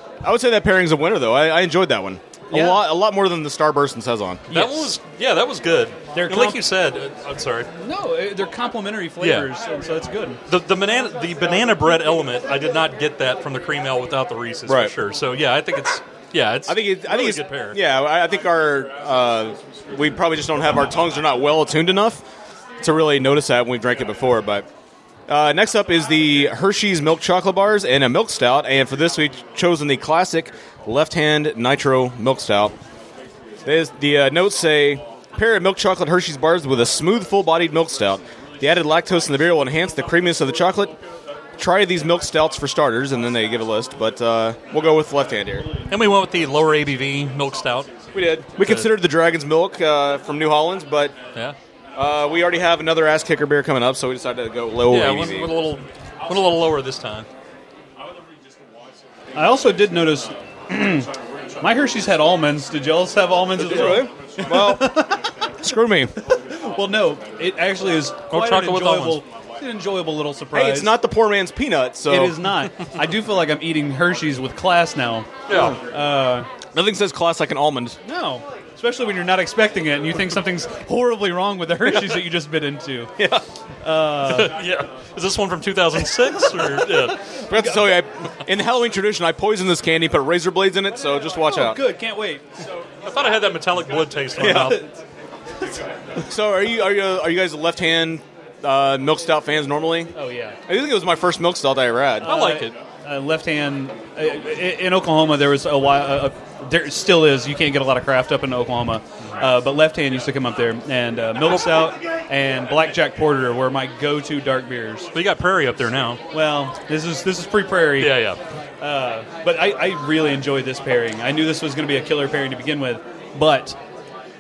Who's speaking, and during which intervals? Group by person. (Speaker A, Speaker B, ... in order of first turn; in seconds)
Speaker A: 0.2-4.5, 14.7-14.9, 16.7-22.2, 22.8-24.7, 25.3-32.8, 33.6-41.0, 41.6-45.7, 48.1-51.2, 52.0-55.5, 63.6-65.1, 65.6-66.1, 70.5-72.4, 75.5-75.8, 76.7-78.0, 83.2-83.4, 87.5-91.8, 94.4-94.8, 96.2-100.1, 100.7-102.3
Speaker B: 2.5-2.8, 4.5-4.9, 6.1-6.6, 7.8-10.4, 59.4-65.4, 66.2-71.0, 72.1-76.5, 78.0-83.1, 83.8-84.6, 87.4-87.9, 91.4-92.5, 94.4-95.0, 100.1-100.6, 102.2-115.1, 116.3-118.3, 118.8-123.8
Speaker C: 4.5-7.7, 9.2-9.5, 10.5-17.8, 45.9-48.9, 54.9-57.3, 68.3-69.2, 75.5-75.8, 84.3-87.2, 93.0-94.8, 102.2-102.8, 115.1-116.2, 118.0-118.4